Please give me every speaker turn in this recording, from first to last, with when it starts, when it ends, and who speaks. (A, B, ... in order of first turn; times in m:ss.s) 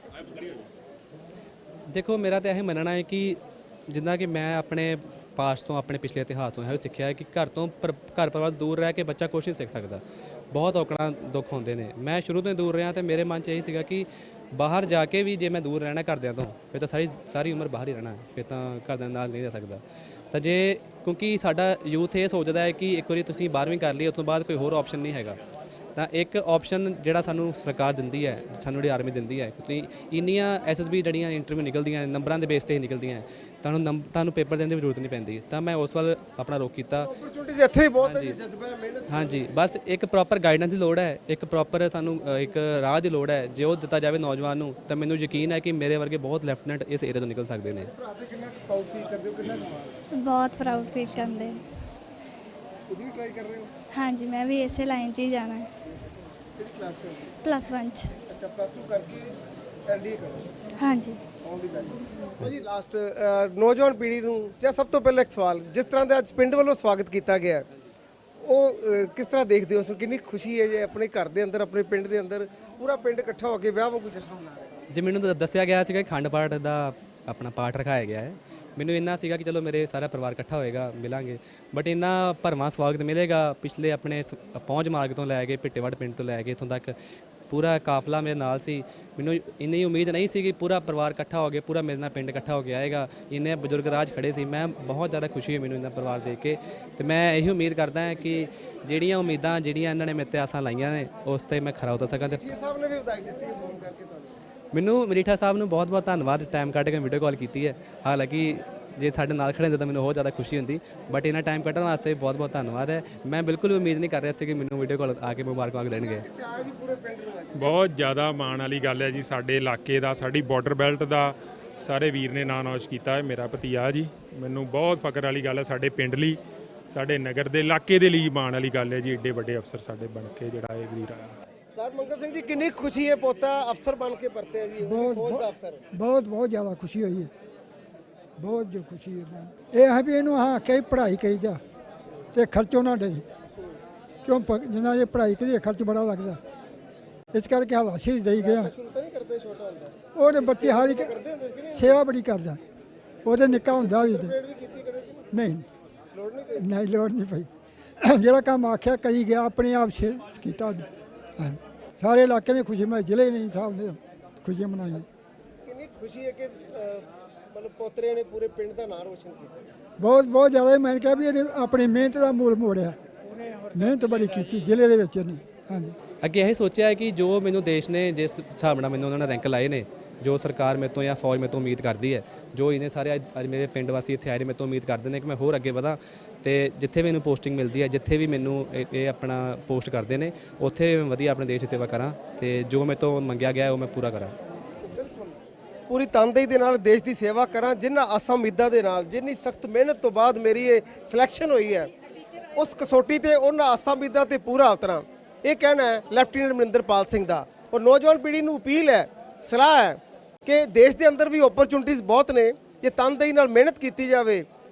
0:01.9-0:25.4 A
0:26.0-0:37.1 A
0:37.0-0:39.4 B
0:38.0-0:38.4 A
0:39.1-0:47.9 A
0:47.8-0:49.9 B
0:50.1-0:51.6 C
0:52.9-0:53.7 B
0:53.9-0:55.7 C
0:56.6-0:57.3 B
0:57.4-0:58.2 C
0:58.3-0:59.3 B
0:59.9-1:00.5 B
1:00.8-1:01.2 C
1:01.4-1:07.7 B
1:08.4-1:14.7 B
1:14.9-1:27.0 A
1:27.5-1:42.4 A
1:42.3-1:44.3 B
1:44.7-1:56.2 A
1:56.0-1:57.8 B
1:57.6-2:06.4 D
2:06.9-2:11.4 D
2:11.8-2:15.8 B
2:14.8-2:17.3 E
2:18.4-2:21.6 E
2:22.3-2:23.2 E
2:24.2-2:26.4 E
2:27.3-2:28.7 E
2:28.4-2:32.0 B
2:30.2-2:31.1 E
2:31.7-2:32.6 E
2:33.3-2:34.3 E
2:33.3-2:35.3 B
2:35.3-2:35.7 E
2:36.1-2:36.7 B
2:36.6-2:37.5 E
2:38.0-2:45.1 E
2:45.6-2:49.6 B
2:50.0-2:53.0 E
2:53.7-2:56.0 E
2:56.2-3:14.4 A
3:14.8-3:21.9 B
3:22.6-3:34.5 B